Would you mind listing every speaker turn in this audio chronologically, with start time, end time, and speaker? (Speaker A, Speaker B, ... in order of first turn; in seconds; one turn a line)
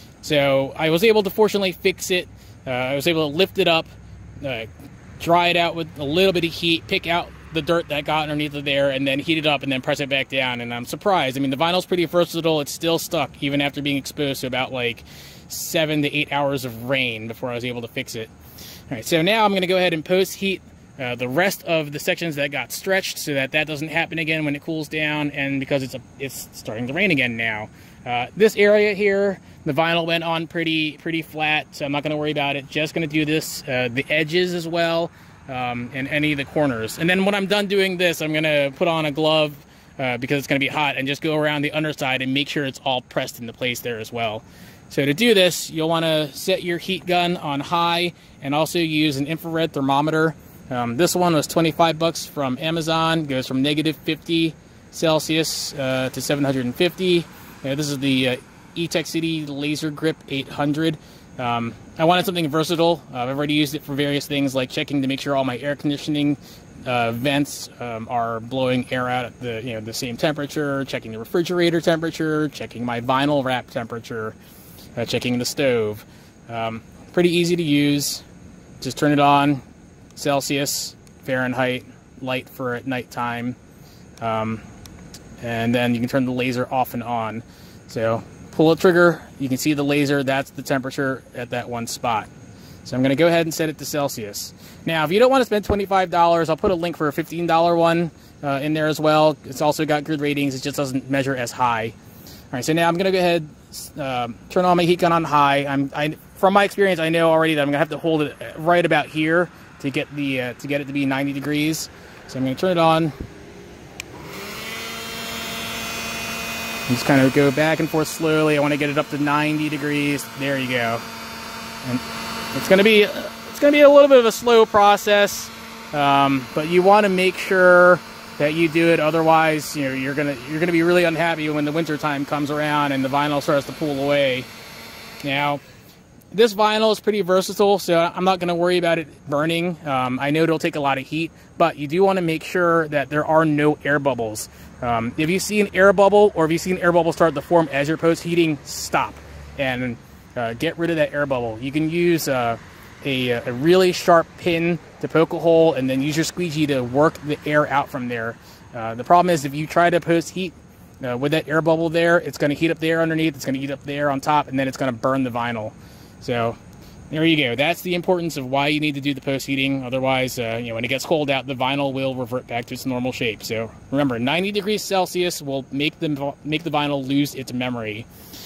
Speaker A: 0.2-3.9
Speaker A: 4.4-18.3
Speaker A: 18.9-74.4
Speaker A: 75.0-78.2
Speaker A: 78.8-79.6
Speaker A: 80.1-83.6
Speaker A: 84.2-84.6
Speaker A: 85.4-92.3
Speaker A: 92.8-102.0
Speaker A: 102.5-113.1
Speaker A: 116.9-121.0
Speaker A: 122.5-134.5
Speaker A: 135.2-135.6
Speaker A: 136.3-166.6
Speaker A: 167.1-178.1